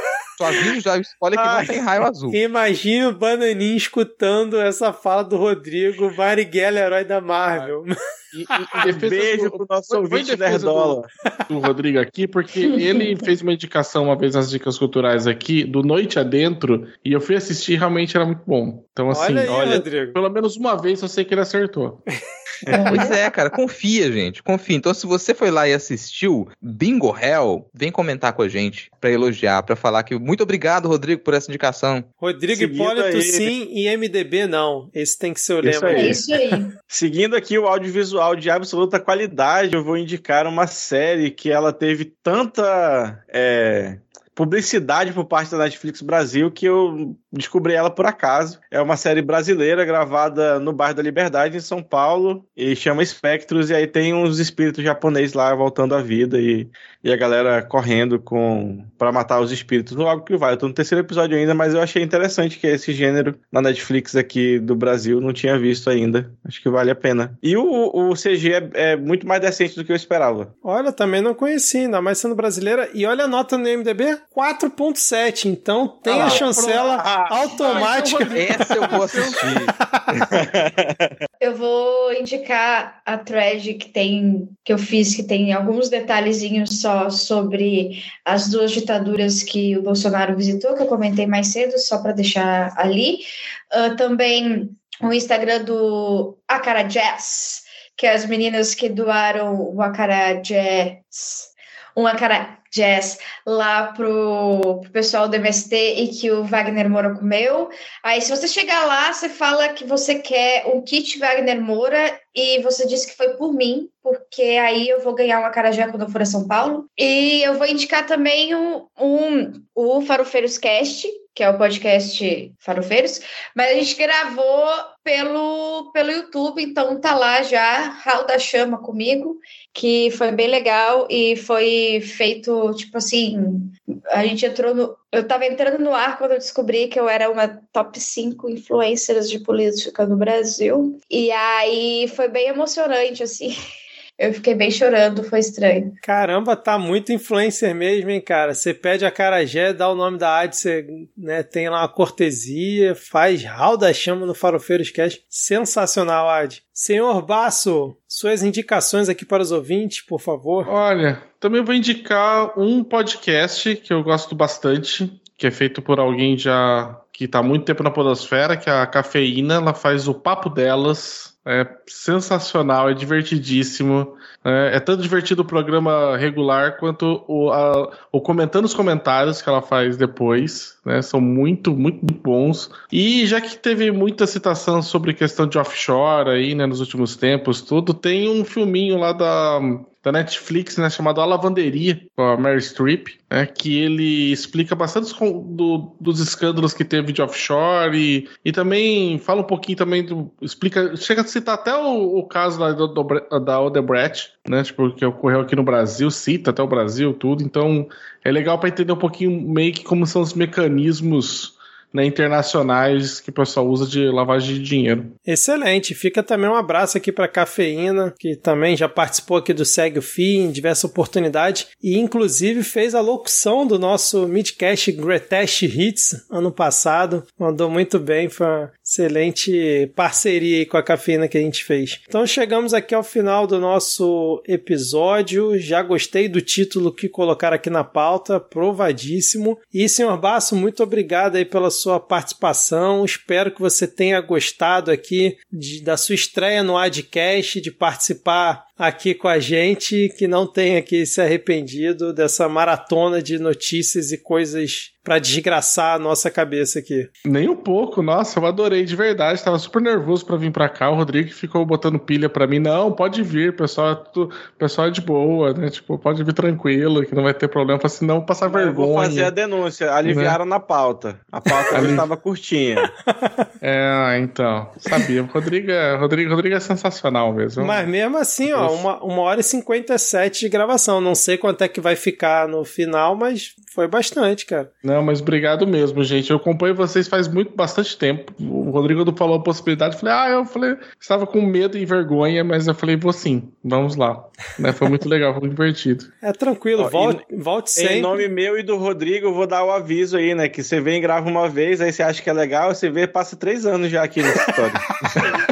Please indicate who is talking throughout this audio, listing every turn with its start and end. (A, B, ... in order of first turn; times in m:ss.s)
0:00.4-0:02.4 A
0:01.3-0:01.8 B
0:02.3-0:07.9 C
0:08.3-0:11.0 D
0:08.5-0:08.8 C
0:08.8-0:11.1 B
0:11.5-0:22.0 D
0:12.6-0:13.3 E
0:19.1-0:20.2 C
0:22.7-0:23.0 B
0:22.7-0:23.1 E
0:22.9-0:32.1 A
0:32.2-0:36.2 C
0:32.5-0:33.5 B
0:35.6-0:36.2 B
0:35.9-0:36.7 E
0:36.9-1:10.5 B
1:10.6-1:20.2 C
1:16.0-1:19.5 D
1:18.3-1:19.7 A
1:20.3-1:21.2 B
1:21.4-2:23.5 E
2:24.2-2:26.0 E
2:26.0-2:40.7 C
2:40.6-3:35.1 D
3:35.3-4:17.1 C
4:17.2-4:29.3 D
4:28.5-4:32.9 B
4:30.0-4:30.4 D
4:31.4-4:31.7 C
4:31.7-4:32.1 D
4:32.8-4:33.5 C
4:33.6-4:37.8 D
4:37.6-4:44.7 C
4:38.4-4:38.9 D
4:44.8-4:56.1 D
4:56.2-4:58.2 C
4:56.8-4:57.2 B
4:57.8-5:05.2 B